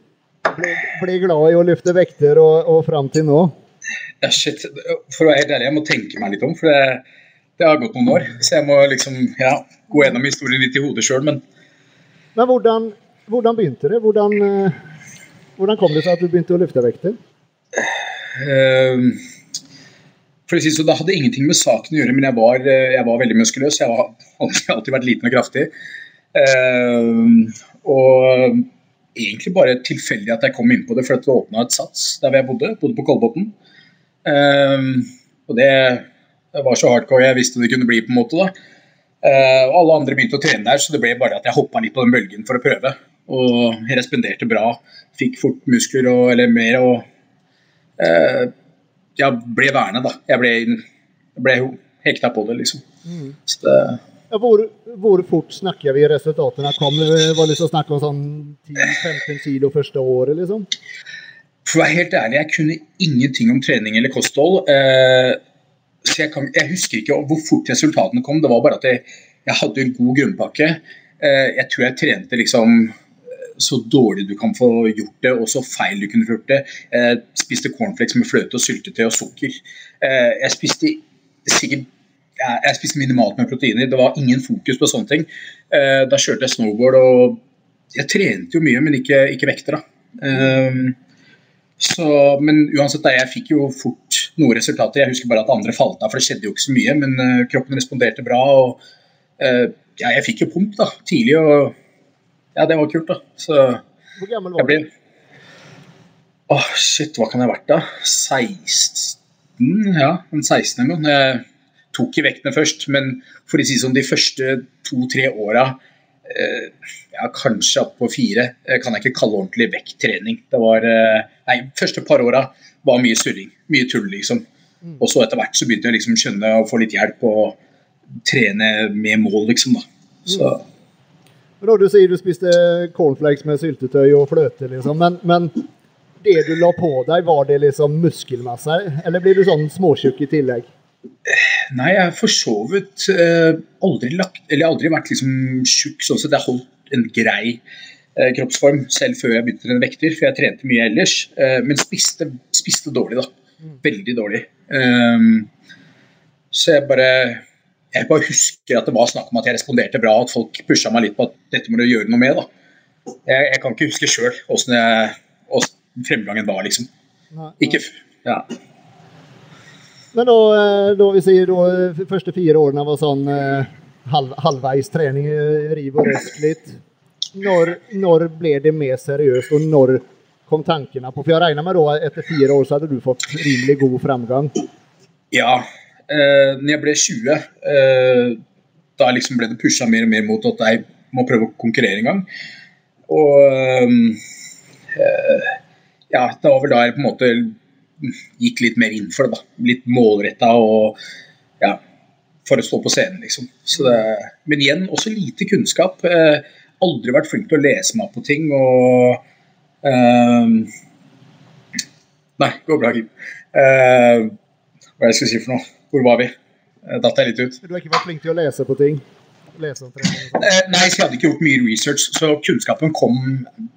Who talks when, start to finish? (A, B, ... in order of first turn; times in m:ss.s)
0:00.5-0:03.5 A
0:04.2-0:07.0 B
0:07.6-0:11.4 B
0:12.3-0:14.8 A
0:15.6-0:17.2 A
0:17.8-0:19.2 B
0:20.5-0:25.7 B
0:26.3-0:33.5 B
0:34.2-0:38.5 B
0:39.2-0:47.1 B
0:48.0-0:48.5 B
0:49.2-0:50.8 B
0:51.4-0:52.8 B
0:53.0-0:53.4 A
0:53.5-0:54.0 B
0:54.3-1:00.7 A
1:01.6-1:05.4 B
1:06.0-1:12.9 B
1:13.6-1:27.4 B
1:27.9-1:31.0 B
1:31.8-1:38.8 B
1:39.4-1:41.7 B
1:42.5-1:43.8 B
1:44.2-1:44.8 A
1:44.6-1:44.8 B
1:46.5-2:04.4 B
2:05.0-2:07.6 B
2:08.2-2:10.6 B
2:11.6-2:15.6 A
2:16.2-2:20.7 A
2:21.3-2:27.6 B
2:28.1-2:33.3 B
2:33.8-2:35.5 B
2:36.5-2:42.5 B
2:43.2-2:46.9 B
2:47.3-2:47.8 A
2:47.6-2:48.5 B
2:50.1-2:56.8 A
2:57.3-3:04.5 A
3:05.3-3:08.4 B
3:09.0-3:12.2 B
3:13.1-3:14.2 B
3:14.9-3:15.6 B
3:16.1-3:21.0 B
3:22.4-3:29.2 B
3:29.8-3:30.7 B
3:32.4-3:34.3 B
3:35.0-3:36.3 B
3:36.8-3:37.6 B
3:37.6-3:39.0 A
3:39.6-3:40.5 A
3:40.3-3:43.5 B